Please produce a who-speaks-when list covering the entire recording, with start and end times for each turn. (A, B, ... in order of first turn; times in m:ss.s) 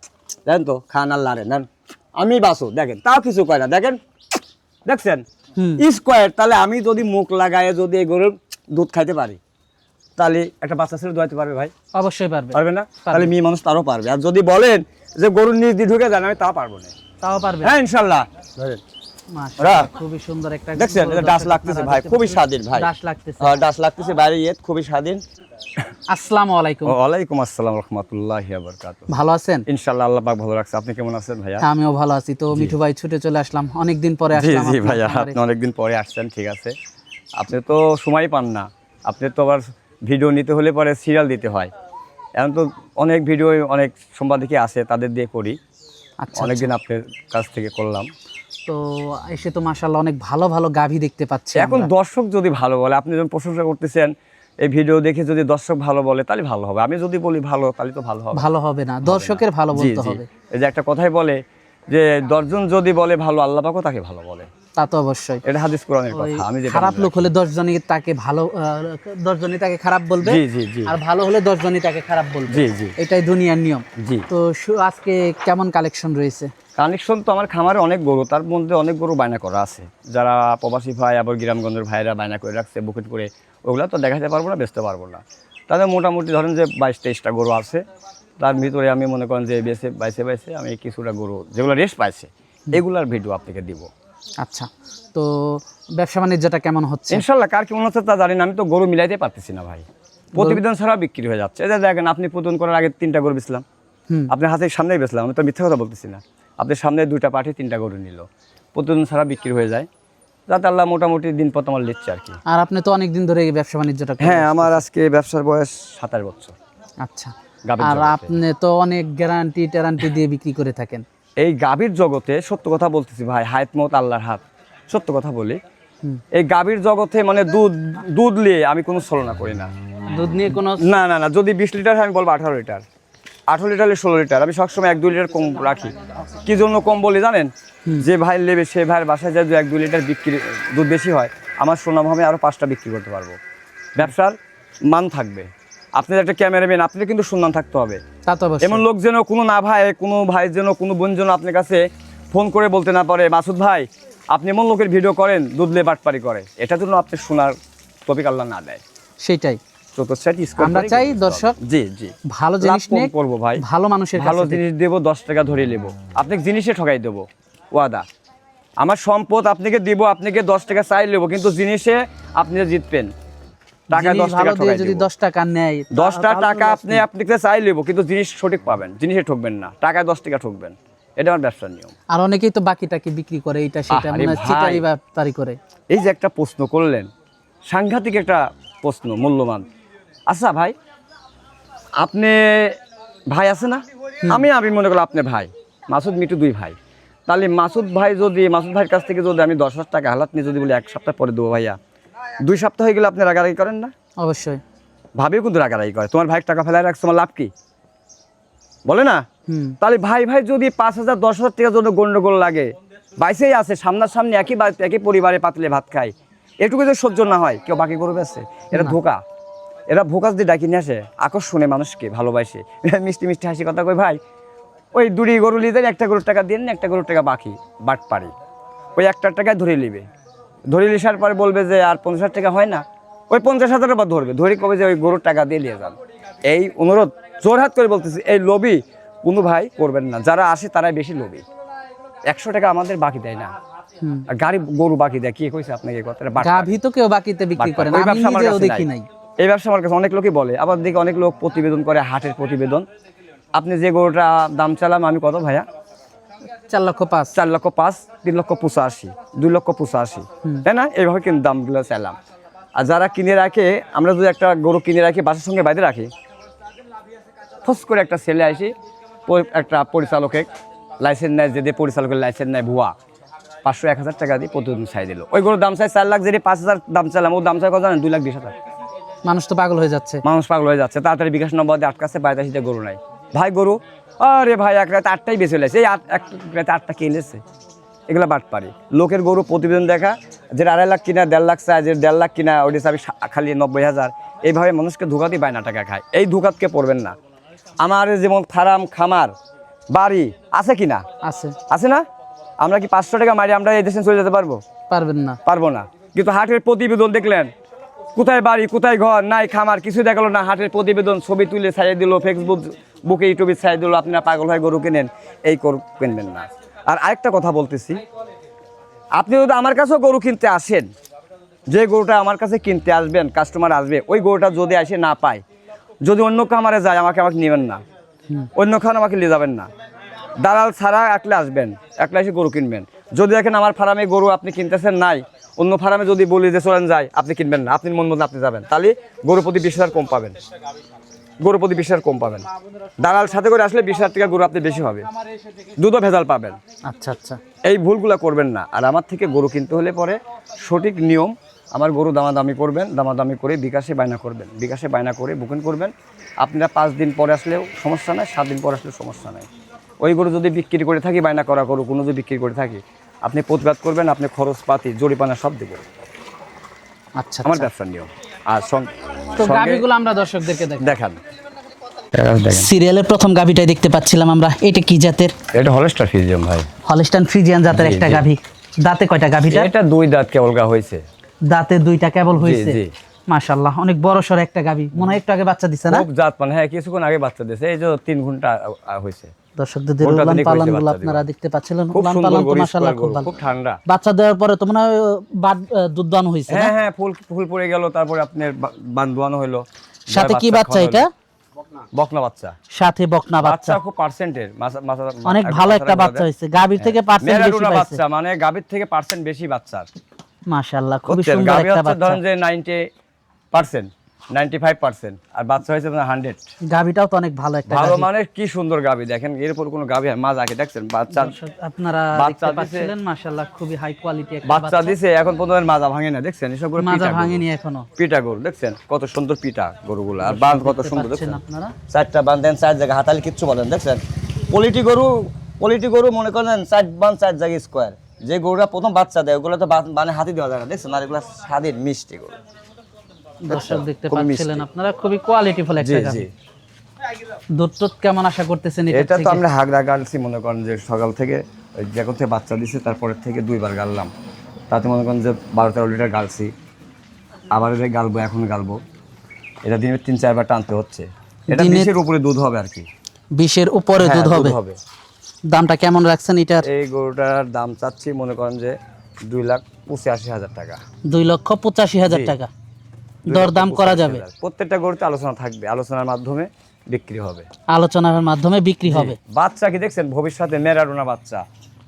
0:00.5-0:04.0 A
0:04.9-0:05.2 A
0:05.6-0:05.8 B
0:05.8-0:09.4 A
0:10.2-0:11.7 A
0:11.9-0:13.3 B
0:12.5-0:17.0 A
0:17.2-0:17.7 B
0:17.6-0:18.8 A
0:19.3-0:23.6 B
0:19.6-0:19.9 A
0:20.8-0:22.9 A
0:23.4-0:25.2 A
0:26.1-0:27.0 B
0:26.9-0:29.1 A
0:29.1-0:29.7 B
0:29.7-0:31.7 A
0:31.6-0:35.4 B
0:34.3-0:36.7 A
0:37.4-0:41.7 A
0:42.4-0:45.6 A
0:46.2-0:46.7 B
0:46.4-0:48.1 A
0:48.7-0:51.9 B
0:51.6-0:58.5 A
0:58.3-1:00.3 B
0:59.0-1:04.5 A
1:04.8-1:05.4 B
1:05.4-1:07.3 A
1:06.1-1:16.5 B
1:10.2-1:11.0 A
1:12.5-1:13.0 A
1:14.0-1:14.3 A
1:16.8-1:27.8 A
1:28.4-1:33.9 A
1:34.4-1:37.2 B
1:37.1-1:43.6 A
1:40.4-1:40.6 B
1:44.3-1:49.9 A
1:50.5-1:52.4 A
1:52.5-1:54.8 B
1:54.2-1:56.6 A
1:57.0-2:01.0 B
1:57.7-1:58.3 A
2:01.4-2:05.6 A
2:06.3-2:09.7 A
2:10.1-2:10.9 B
2:10.8-2:12.8 A
2:13.5-2:23.4 A
2:24.0-2:28.0 A
2:28.3-2:28.8 B
2:28.6-2:37.6 A
2:38.1-2:38.8 A
2:39.2-2:39.6 B
2:40.0-2:43.6 A
2:40.6-2:41.6 B
2:42.3-2:44.6 B
2:44.2-2:48.1 A
2:48.8-2:53.1 A
2:53.9-2:55.1 A
2:53.9-2:57.0 B
2:55.9-3:02.0 A
3:02.1-3:05.6 B
3:03.9-3:04.8 A
3:05.9-3:07.1 A
3:07.7-3:09.7 A
3:10.3-3:10.7 A
3:12.0-3:12.8 A
3:13.3-3:21.8 A
3:14.2-3:14.5 B
3:22.4-3:23.9 A
3:24.2-3:24.6 B
3:25.2-3:27.5 A
3:28.9-3:29.2 A
3:29.5-3:29.8 B
3:29.8-3:39.2 A
3:39.9-3:44.2 A
3:44.9-3:48.3 A
3:49.0-3:50.1 A
3:50.7-4:01.4 A
4:02.3-4:03.5 A
4:04.0-4:04.3 B
4:04.3-4:06.7 A
4:06.4-4:09.1 B
4:07.6-4:08.9 A
4:09.4-4:12.9 A
4:13.5-4:15.7 A
4:16.7-4:17.3 B
4:17.3-4:22.2 A
4:22.8-4:26.1 A
4:27.6-4:28.7 A
4:29.3-4:30.5 A
4:31.0-4:32.9 A
4:33.6-4:38.6 A
4:39.2-4:40.2 B
4:40.2-4:47.4 A
4:48.1-4:57.2 A
4:57.8-4:59.3 A
4:59.9-5:01.0 A
5:01.2-5:01.6 B
5:01.7-5:02.0 A
5:02.6-5:04.6 A
5:04.9-5:05.4 B
5:05.4-5:07.5 A
5:08.2-5:18.0 A
5:19.2-5:20.9 A
5:21.7-5:25.4 A
5:26.0-5:27.8 A
5:28.6-5:29.7 A
5:30.4-5:40.4 A
5:41.4-5:42.5 A
5:43.0-5:45.1 A
5:45.8-5:46.6 A
5:46.9-5:47.4 B
5:47.7-5:59.5 A
6:00.0-6:05.8 A
6:07.2-6:07.7 B
6:07.4-6:09.8 A
6:09.4-6:10.9 B
6:10.8-6:11.2 A
6:12.1-6:12.7 A
6:12.5-6:15.4 B
6:15.5-6:16.7 A
6:16.8-6:19.7 B
6:17.7-6:18.2 A
6:19.5-6:21.0 A
6:21.5-6:26.1 B
6:22.4-6:22.9 A
6:25.9-6:29.3 A
6:29.6-6:33.3 B
6:30.0-6:31.2 A
6:31.9-6:33.8 A
6:33.9-6:36.7 B
6:36.5-6:41.0 A
6:40.1-6:41.1 B
6:41.9-6:42.6 A
6:42.7-6:43.8 B
6:43.4-6:46.3 A
6:45.2-6:48.0 B
6:46.8-6:49.9 A
6:50.5-6:52.2 B
6:51.1-6:52.9 A
6:53.5-6:56.4 A
6:56.7-6:58.1 B
6:57.7-7:01.4 A
7:01.1-7:05.0 B
7:02.1-7:02.9 A
7:04.4-7:07.4 A
7:06.8-7:07.9 B
7:08.0-7:22.4 A
7:10.2-7:11.8 B
7:23.4-7:26.2 B
7:23.5-7:24.6 A
7:25.8-7:26.3 A
7:27.5-7:29.4 B
7:28.9-7:34.1 A
7:34.7-7:36.5 A
7:37.5-7:38.8 A
7:39.7-7:42.9 A
7:41.5-7:41.9 B
7:43.4-7:44.6 B
7:44.0-7:44.8 A
7:45.5-7:46.7 B
7:46.6-7:50.8 A
7:51.1-7:52.5 B
7:52.1-7:52.4 A
7:53.3-7:54.2 B
7:53.3-7:57.5 A
7:57.7-7:59.2 B
7:58.9-8:01.4 A